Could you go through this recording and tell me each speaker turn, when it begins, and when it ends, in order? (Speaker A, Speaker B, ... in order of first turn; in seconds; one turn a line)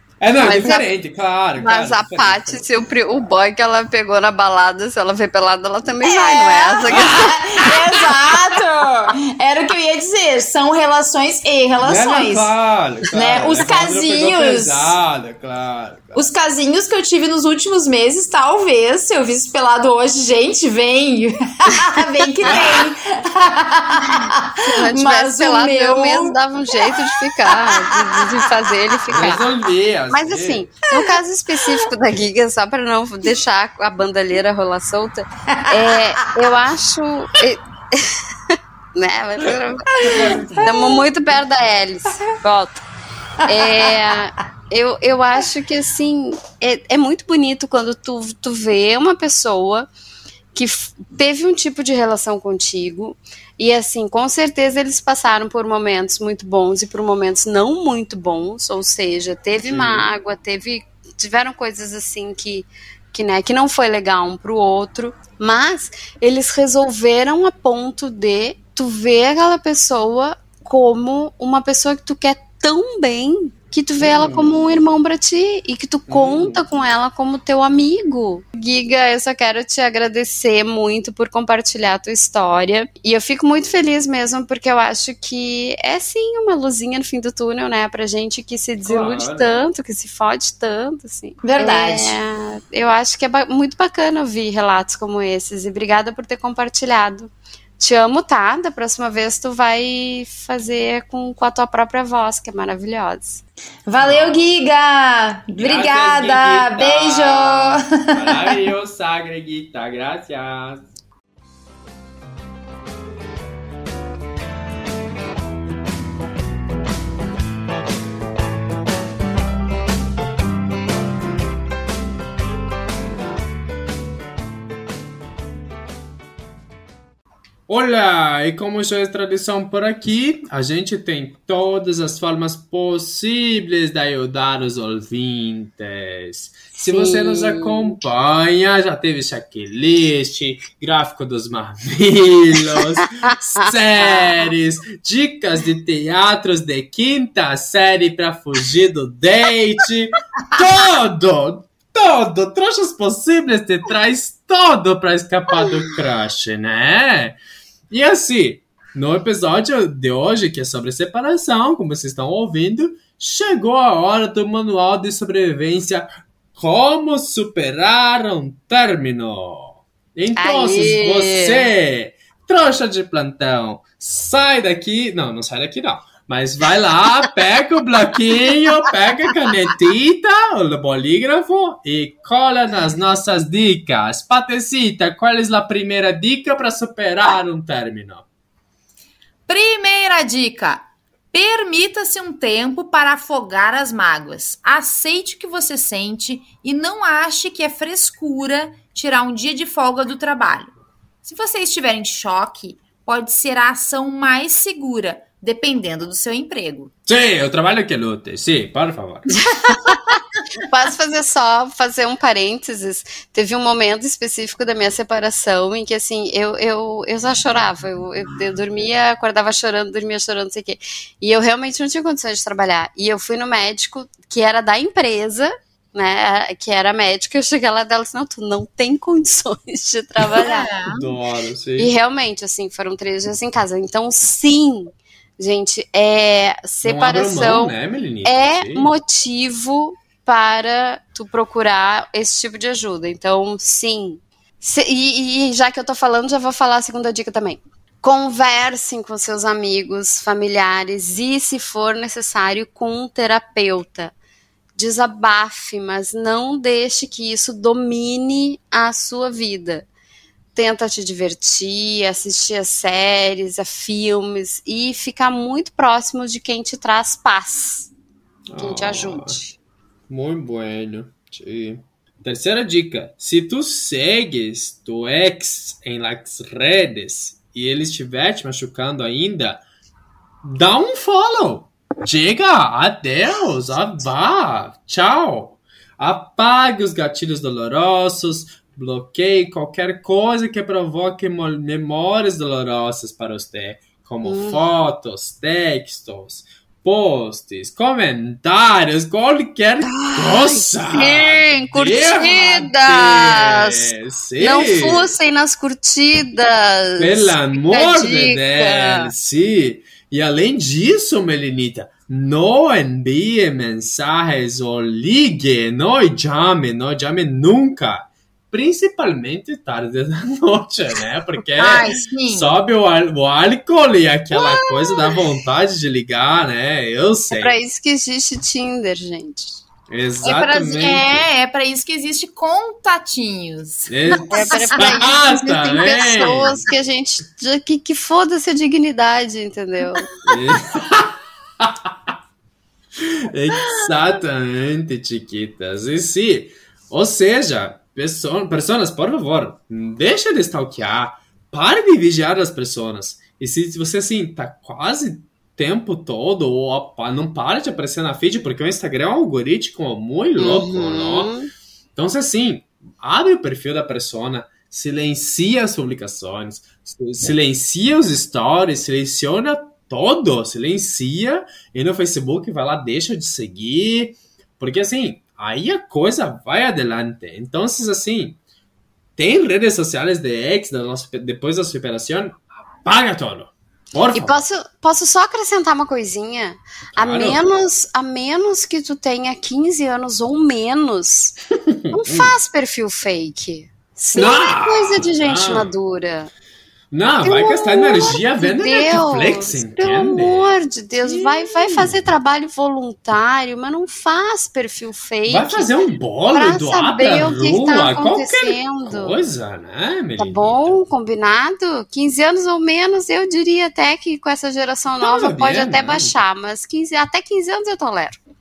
Speaker A: 0.2-2.7
Speaker B: 0.4-0.9
Speaker B: 1.6-7.3
Speaker C: 6.0-12.5
Speaker A: 6.9-8.6
Speaker A: 11.8-16.3
Speaker C: 13.1-15.0
Speaker C: 16.1-28.7
Speaker A: 22.4-22.9
Speaker B: 24.1-29.5
Speaker A: 29.1-30.7
Speaker B: 30.1-42.8
Speaker C: 30.9-31.7
Speaker C: 35.5-36.4
Speaker C: 39.9-41.0
Speaker A: 40.0-40.7
Speaker C: 43.4-43.9
Speaker B: 43.4-49.9
Speaker B: 50.5-103.4
Speaker A: 59.6-60.1
Speaker A: 74.0-74.6
Speaker A: 76.1-76.6
Speaker A: 88.8-89.6
Speaker C: 91.4-92.2
Speaker C: 103.9-108.5
Speaker A: 104.0-104.5
Speaker A: 105.6-110.8
Speaker A: 127.7-157.4
Speaker B: 136.7-138.0
Speaker B: 143.3-144.5
Speaker A: 157.9-188.3
Speaker B: 170.4-171.7
Speaker C: 189.5-200.7
Speaker C: 201.2-206.9
Speaker A: 207.1-209.3
Speaker B: 209.3-210.0
Speaker C: 209.7-210.4
Speaker B: 210.6-230.7
Speaker A: 230.2-231.9
Speaker C: 230.3-231.1
Speaker B: 231.8-254.1
Speaker A: 236.8-238.9
Speaker B: 254.8-259.9
Speaker B: 260.6-267.9
Speaker A: 268.5-269.4
Speaker B: 268.6-269.6
Speaker A: 270.1-279.6
Speaker A: 280.4-305.1
Speaker B: 294.2-294.6
Speaker B: 299.9-309.1
Speaker A: 307.0-327.6
Speaker C: 321.6-322.5
Speaker B: 324.3-325.2
Speaker B: 327.3-329.6
Speaker A: 329.9-331.2
Speaker C: 330.2-334.9
Speaker A: 333.9-336.6
Speaker B: 334.3-340.1
Speaker A: 340.2-341.9
Speaker A: 343.0-361.3
Speaker B: 360.4-361.5
Speaker A: 361.9-378.4
Speaker A: 379.2-384.4
Speaker B: 384.1-391.4
Speaker A: 386.9-387.4
Speaker A: 391.6-392.3
Speaker B: 391.9-396.3
Speaker A: 394.1-395.7
Speaker A: 396.9-402.0
Speaker B: 397.2-405.7
Speaker A: 405.3-410.8
Speaker B: 406.3-409.2
Speaker B: 410.2-418.2
Speaker A: 415.0-416.2